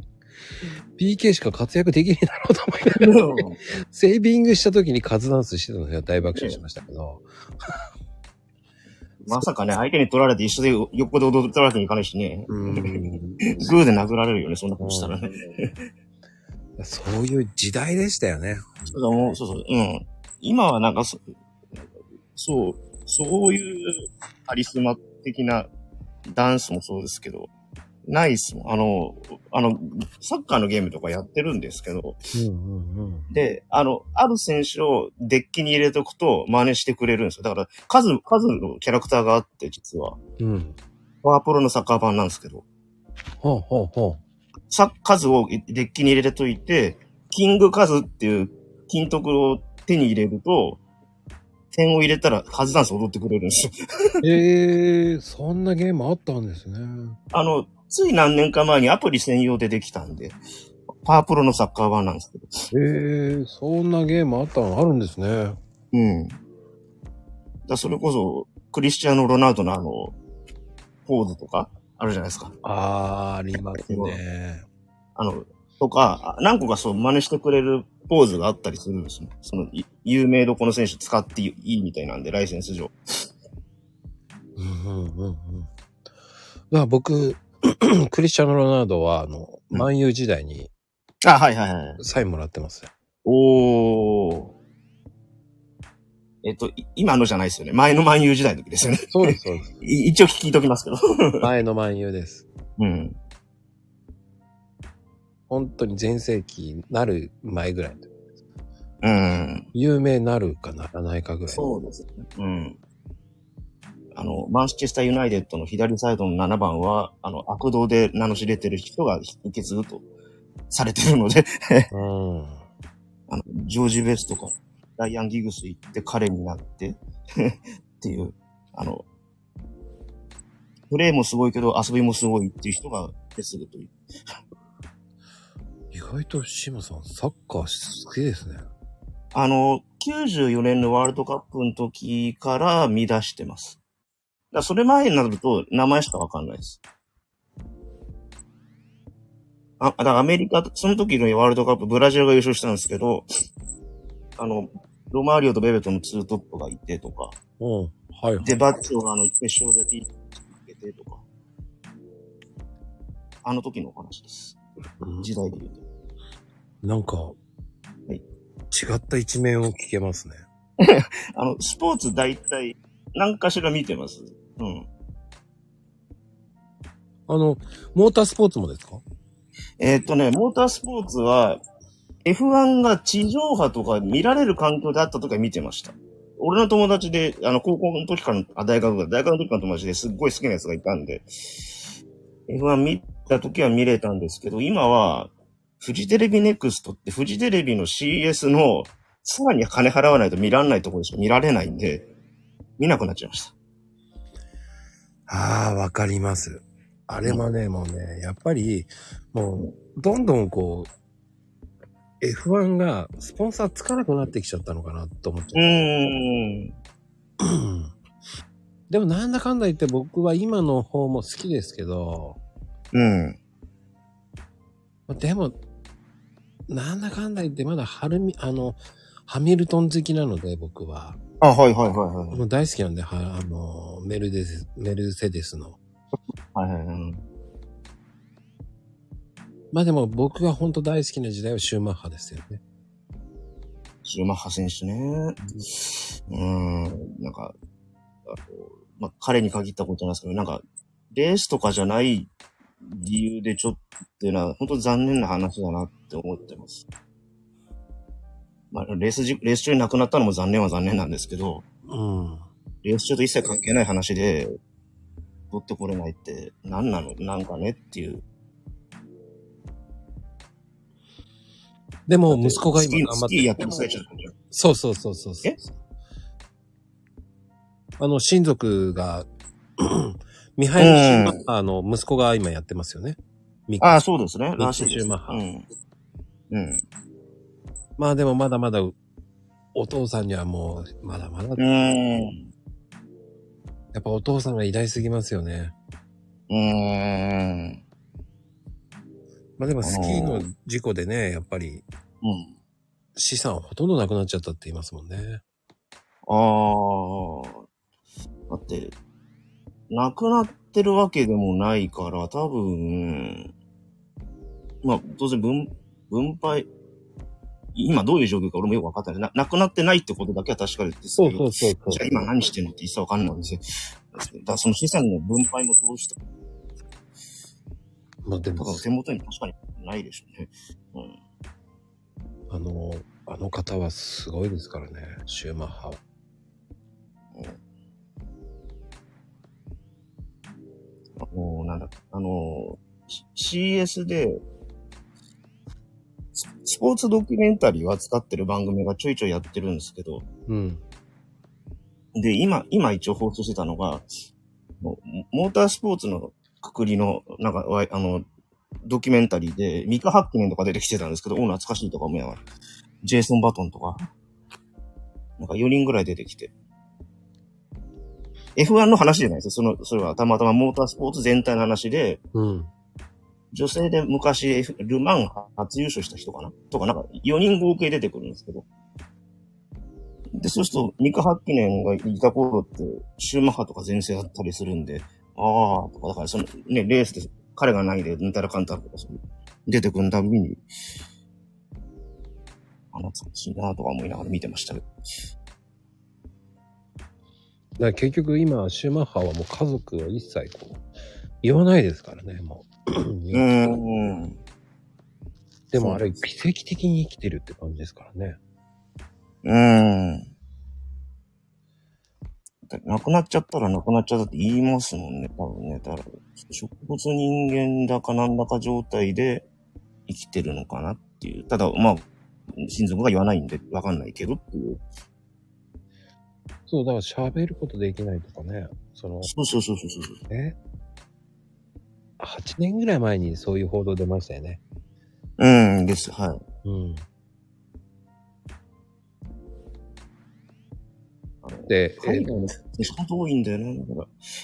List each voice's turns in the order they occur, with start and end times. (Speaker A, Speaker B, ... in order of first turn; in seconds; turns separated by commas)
Speaker A: 1.0-7.8, Speaker B: 3.0-3.6, Speaker B: 6.3-6.6, Speaker B: 9.2-13.0, Speaker A: 12.5-13.6, Speaker B: 13.5-15.7, Speaker A: 14.8-15.2, Speaker A: 16.8-18.9, Speaker B: 18.9-21.2, Speaker B: 22.3-25.7, Speaker B: 26.3-27.5, Speaker B: 28.1-32.2, Speaker A: 32.3-33.3, Speaker B: 33.3-40.2, Speaker A: 40.4-40.8, Speaker B: 41.2-42.6, Speaker A: 43.4-44.2, Speaker B: 44.7-50.8, Speaker B: 51.7-54.2, Speaker A: 54.2-57.2, Speaker B: 57.3-60.4, Speaker B: 61.0-62.6, Speaker A: 62.7-65.6, Speaker B: 65.9-66.4, Speaker B: 67.7-70.2, Speaker B: 71.0-72.5, Speaker A: 72.6-74.6, Speaker B: 73.7-74.2, Speaker B: 75.2-82.9, Speaker A: 84.6-85.7, Speaker A: 86.7-90.7, Speaker B: 91.2-92.0, Speaker A: 92.0-92.9, Speaker B: 93.2-94.5, Speaker B: 96.4-101.5, Speaker A: 99.1-99.7, Speaker A: 101.4-102.4, Speaker B: 102.8-103.2, Speaker A: 105.5-108.1, Speaker B: 109.0-109.7, Speaker A: 109.7-111.6, Speaker B: 111.5-112.8, Speaker B: 114.1-120.0, Speaker B: 120.7-121.9, Speaker A: 121.9-122.6, Speaker B: 123.3-129.0, Speaker B: 130.9-133.9, Speaker A: 135.9-138.6, Speaker B: 139.3-143.8, Speaker B: 144.5-146.8, Speaker B: 149.8-153.3, Speaker B: 154.4-157.3, Speaker A: 157.6-158.5, Speaker B: 158.4-161.2, Speaker B: 163.4-164.6, Speaker A: 165.0-165.3, Speaker B: 165.2-165.8, Speaker A: 166.8-167.4, Speaker A: 168.7-170.4, Speaker B: 170.8-174.9, Speaker A: 177.3-179.0, Speaker B: 179.8-181.6, Speaker B: 182.2-191.3, Speaker B: 192.5-202.1, Speaker B: 202.8-203.5, Speaker A: 205.3-210.9, Speaker A: 212.2-215.7, Speaker B: 215.5-216.7, Speaker A: 217.4-217.9, Speaker A: 218.9-222.4, Speaker B: 222.9-223.4, Speaker A: 225.1-225.6, Speaker A: 226.7-231.2, Speaker B: 231.4-232.4, Speaker A: 232.3-235.8, Speaker B: 236.5-237.2, Speaker A: 239.7-242.6, Speaker B: 244.0-247.5, Speaker B: 248.3-252.3, Speaker B: 252.8-256.9, Speaker B: 258.7-261.6, Speaker A: 261.9-262.4, Speaker B: 262.8-264.5, Speaker B: 265.5-268.2, Speaker A: 272.1-273.7, Speaker B: 272.3-274.3, Speaker A: 274.5-275.6, Speaker A: 278.0-284.0, Speaker B: 280.8-281.4, Speaker B: 283.8-285.6, Speaker A: 284.6-285.4, Speaker B: 286.5-286.8, Speaker A: 288.0-288.9, Speaker A: 289.7-291.6, Speaker B: 291.6-292.4, Speaker A: 293.9-295.7, Speaker B: 296.5-297.8, Speaker A: 299.6-301.8, Speaker B: 299.8-300.5, Speaker B: 302.2-302.5, Speaker A: 303.1-305.4, Speaker B: 306.3-307.6, Speaker B: 308.5-308.9, Speaker B: 309.9-313.5, Speaker B: 314.8-316.7, Speaker B: 317.7-323.6, Speaker A: 321.1-322.2, Speaker B: 324.1-326.2, Speaker A: 328.2-328.9, Speaker B: 328.6-331.1, Speaker A: 332.5-336.0, Speaker B: 341.2-344.4, Speaker B: 346.3-350.2, Speaker A: 350.5-350.8, Speaker B: 352.1-354.1, Speaker B: 354.8-358.2, Speaker B: 358.8-362.4, Speaker B: 363.0-364.1, Speaker B: 365.4-366.5, Speaker B: 368.6-372.2, Speaker A: 372.3-372.7, Speaker B: 373.5-378.6, Speaker B: 380.3-390.6, Speaker B: 392.9-394.9, Speaker A: 397.8-400.8, Speaker A: 401.4-403.8, Speaker B: 403.3-404.4, Speaker A: 405.7-408.4, Speaker B: 405.8-406.0, Speaker B: 409.4-410.3, Speaker B: 412.7-419.5, Speaker B: 420.1-424.8, Speaker A: 426.7-429.3, Speaker B: 429.2-430.2, Speaker A: 430.3-430.6, Speaker A: 432.2-434.6, Speaker B: 435.4-436.4, Speaker A: 436.6-437.1, Speaker B: 441.4-444.1, Speaker A: 441.7-442.4